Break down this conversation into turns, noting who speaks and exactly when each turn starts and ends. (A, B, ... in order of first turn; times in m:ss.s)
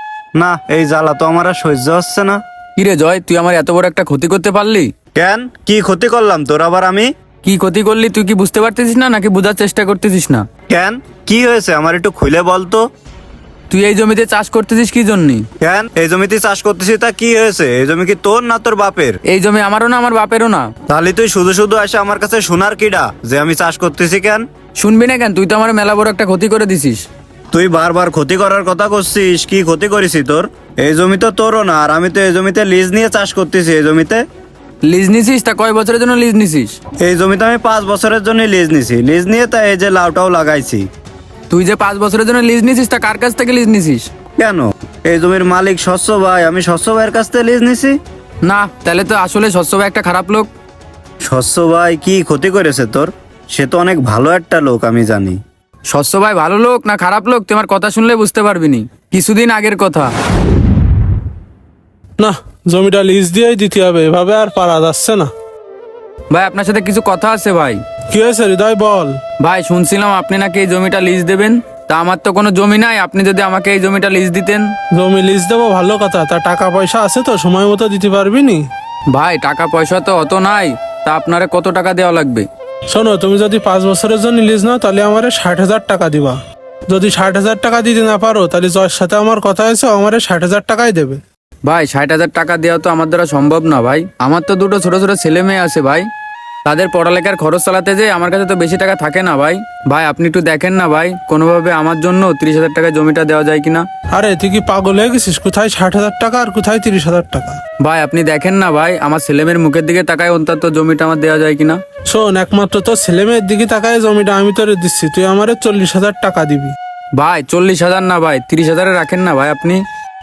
0:00.4-0:02.4 A
0:02.8-0:04.9 B
0:05.2-0:07.1 A
0:07.4-0:10.4 B
0:10.7-0:12.8 A
0:13.7-0:15.4 B
0:15.6-0:19.2 A
0:19.3-0:20.7 B
0:20.9-0:24.4 A
0:24.8-0:27.0 B
0:27.5-0:34.2 A
0:34.8-0:36.8 B
0:37.0-0:40.8 A
0:41.5-0:44.1 B
0:44.4-0:48.0 A
0:48.4-0:50.5 B
0:51.2-0:55.4 A
0:55.9-1:00.1 B
1:02.2-1:05.3 C
1:06.3-1:07.8 B
1:08.1-1:09.2 C
1:09.4-1:14.7 B
1:14.9-1:18.7 C
1:19.1-1:22.4 B
1:22.9-1:26.4 C
1:26.9-1:31.2 C
1:31.6-1:36.0 B
1:36.6-1:43.9 B
1:44.1-1:47.6 C
1:47.8-1:51.8 B
1:52.1-1:56.8 C
1:57.2-1:59.8 B